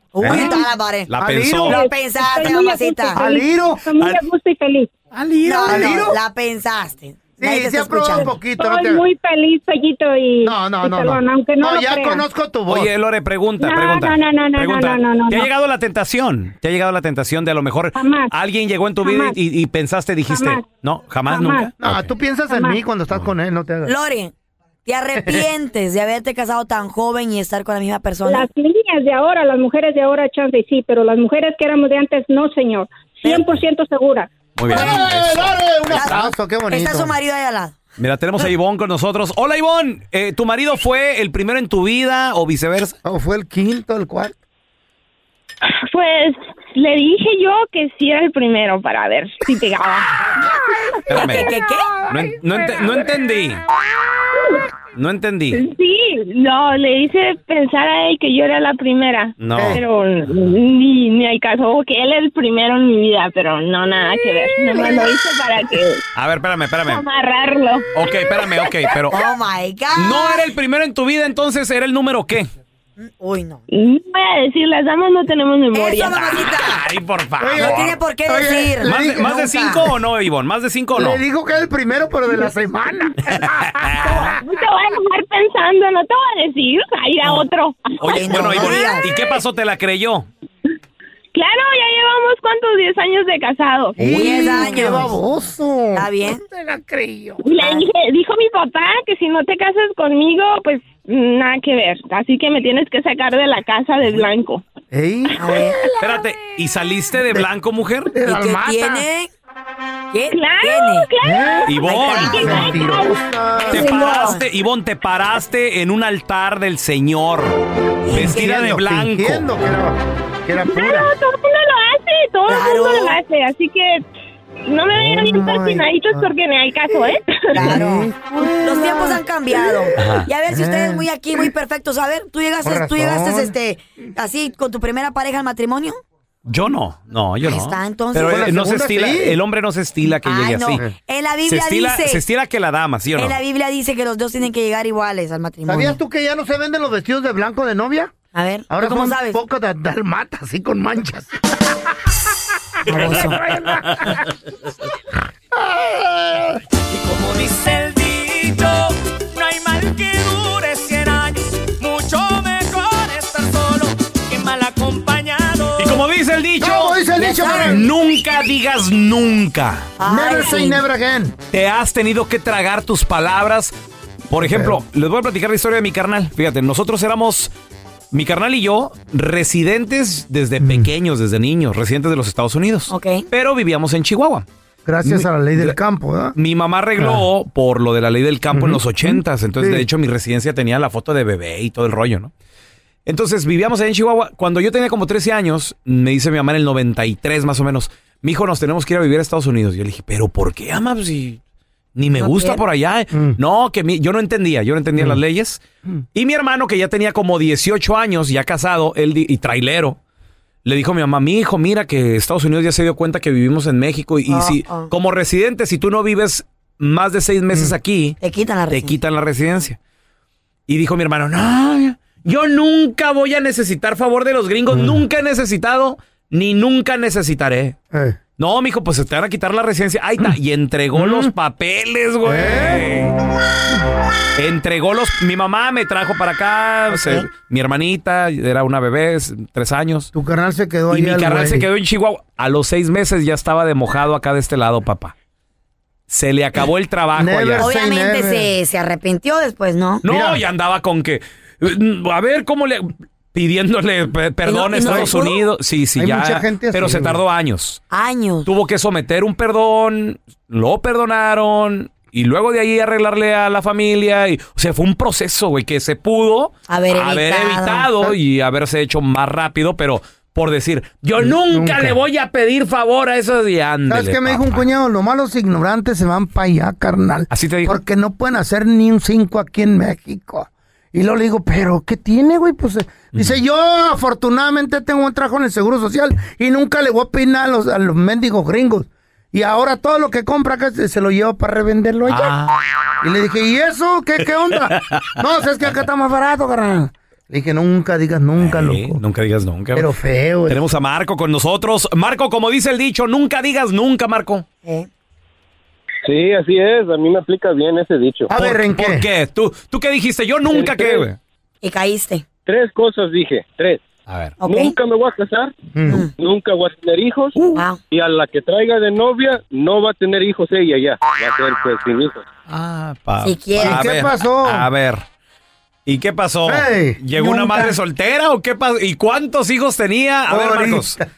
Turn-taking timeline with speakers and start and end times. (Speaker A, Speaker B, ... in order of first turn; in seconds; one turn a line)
Speaker A: 0.1-1.1
Speaker B: 0.2-1.8
Speaker C: 1.2-1.8
Speaker A: 1.6-3.2
Speaker D: 1.7-4.9
Speaker C: 3.1-3.9
Speaker C: 5.2-6.2
Speaker A: 5.4-8.3
Speaker B: 5.5-6.0
Speaker C: 7.4-9.0
Speaker D: 8.2-12.2
Speaker C: 10.4-12.9
Speaker B: 12.7-22.1
Speaker D: 13.6-15.5
Speaker D: 17.9-18.3
Speaker D: 19.0-19.4
Speaker D: 20.3-20.6
Speaker D: 21.3-21.7
Speaker C: 21.8-23.9
Speaker D: 22.5-22.8
Speaker A: 23.9-24.3
Speaker A: 24.9-28.5
Speaker D: 28.2-34.3
Speaker B: 34.6-36.2
Speaker C: 34.7-37.1
Speaker A: 35.9-37.8
Speaker B: 38.0-43.0
Speaker C: 43.0-44.4
Speaker E: 45.9-50.3
Speaker B: 51.1-51.5
Speaker A: 51.1-51.9
Speaker B: 52.1-53.6
Speaker B: 55.0-55.6
Speaker E: 55.5-66.0
Speaker B: 59.4-59.8
Speaker C: 59.5-59.8
Speaker B: 66.2-67.0
Speaker E: 66.9-67.9
Speaker B: 68.0-69.2
Speaker A: 69.1-70.5
Speaker B: 70.0-72.5
Speaker A: 73.0-73.6
Speaker E: 73.7-76.3
Speaker A: 75.7-76.8
Speaker B: 76.5-78.0
Speaker C: 77.4-79.3
Speaker A: 77.6-79.9
Speaker B: 78.8-81.2
Speaker C: 81.0-84.4
Speaker B: 83.8-84.2
Speaker E: 84.3-88.9
Speaker B: 88.0-90.3
Speaker A: 88.0-89.1
Speaker E: 91.3-94.3
Speaker C: 94.0-97.4
Speaker A: 94.0-95.2
Speaker A: 96.0-96.4
Speaker E: 97.4-104.6
Speaker C: 104.9-105.9
Speaker A: 105.4-105.8
Speaker B: 106.0-108.1
Speaker C: 108.1-109.0
Speaker A: 108.2-109.3
Speaker A: 110.1-111.1
Speaker E: 110.3-113.1
Speaker C: 111.2-114.1
Speaker B: 111.7-112.5
Speaker A: 111.8-112.9
Speaker A: 113.6-114.4
Speaker B: 113.7-117.6
Speaker A: 118.1-118.7
Speaker B: 118.1-119.5
Speaker C: 118.3-121.1
Speaker E: 120.6-124.0
Speaker A: 122.5-123.2
Speaker E: 124.7-127.6
Speaker C: 124.9-126.3
Speaker A: 127.5-136.0
Speaker C: 127.5-129.9
Speaker B: 130.0-130.3
Speaker C: 130.5-131.5
Speaker C: 132.6-133.5
Speaker B: 136.5-140.8
Speaker A: 137.4-138.5
Speaker C: 138.3-139.4
Speaker A: 140.2-142.2
Speaker B: 141.5-143.4
Speaker A: 143.2-146.0
Speaker C: 145.7-148.1
Speaker A: 148.3-149.4
Speaker C: 148.7-151.3
Speaker A: 152.9-153.4
Speaker C: 152.9-154.2
Speaker C: 155.6-156.6
Speaker F: 156.9-165.9
Speaker B: 165.8-169.9
Speaker C: 166.6-167.9
Speaker A: 167.2-167.8
Speaker A: 170.0-170.8
Speaker C: 170.1-171.3
Speaker B: 171.5-173.7
Speaker B: 174.3-177.5
Speaker C: 174.4-174.8
Speaker B: 178.1-184.5
Speaker C: 180.6-180.9
Speaker A: 182.9-183.3
Speaker C: 184.9-186.3
Speaker B: 185.0-185.8
Speaker B: 186.3-192.3
Speaker C: 187.0-187.2
Speaker C: 188.5-189.9
Speaker B: 193.1-201.4
Speaker B: 201.9-205.6
Speaker A: 202.2-202.6
Speaker B: 206.1-210.0
Speaker B: 210.6-218.2
Speaker A: 214.3-214.9
Speaker A: 218.2-219.0
Speaker B: 218.7-219.8
Speaker B: 220.7-227.8
Speaker C: 224.7-225.0
Speaker C: 227.9-228.2
Speaker B: 228.4-233.1
Speaker C: 230.9-231.3
Speaker C: 232.2-232.9
Speaker B: 234.4-240.1
Speaker C: 236.9-237.2
Speaker C: 240.1-241.7
Speaker B: 240.9-245.1
Speaker B: 246.1-247.7
Speaker C: 247.2-248.5
Speaker A: 247.6-250.0
Speaker B: 250.0-257.8
Speaker C: 250.1-250.4
Speaker A: 254.4-255.4
Speaker C: 254.8-255.2
Speaker C: 256.0-257.2
Speaker A: 257.9-258.5
Speaker B: 258.4-274.6
Speaker A: 266.7-267.9
Speaker C: 271.2-272.0
Speaker C: 273.9-292.3
Speaker B: 277.3-277.8
Speaker B: 283.1-283.4
Speaker B: 292.1-292.6
Speaker C: 293.0-299.0
Speaker B: 298.4-299.9
Speaker C: 299.8-300.6
Speaker B: 300.5-304.4
Speaker G: 306.1-308.3
Speaker C: 308.3-309.1
Speaker B: 308.3-311.2
Speaker G: 310.5-311.1
Speaker A: 311.6-312.2
Speaker G: 312.5-313.8
Speaker B: 314.1-314.4
Speaker A: 314.4-314.8
Speaker G: 314.4-315.6
Speaker C: 315.7-316.1
Speaker G: 316.1-317.4
Speaker A: 317.5-317.8
Speaker G: 317.9-322.2
Speaker B: 322.5-325.0
Speaker A: 323.2-323.9
Speaker C: 323.6-324.7
Speaker B: 325.9-331.0
Speaker C: 326.5-327.7
Speaker C: 330.3-331.1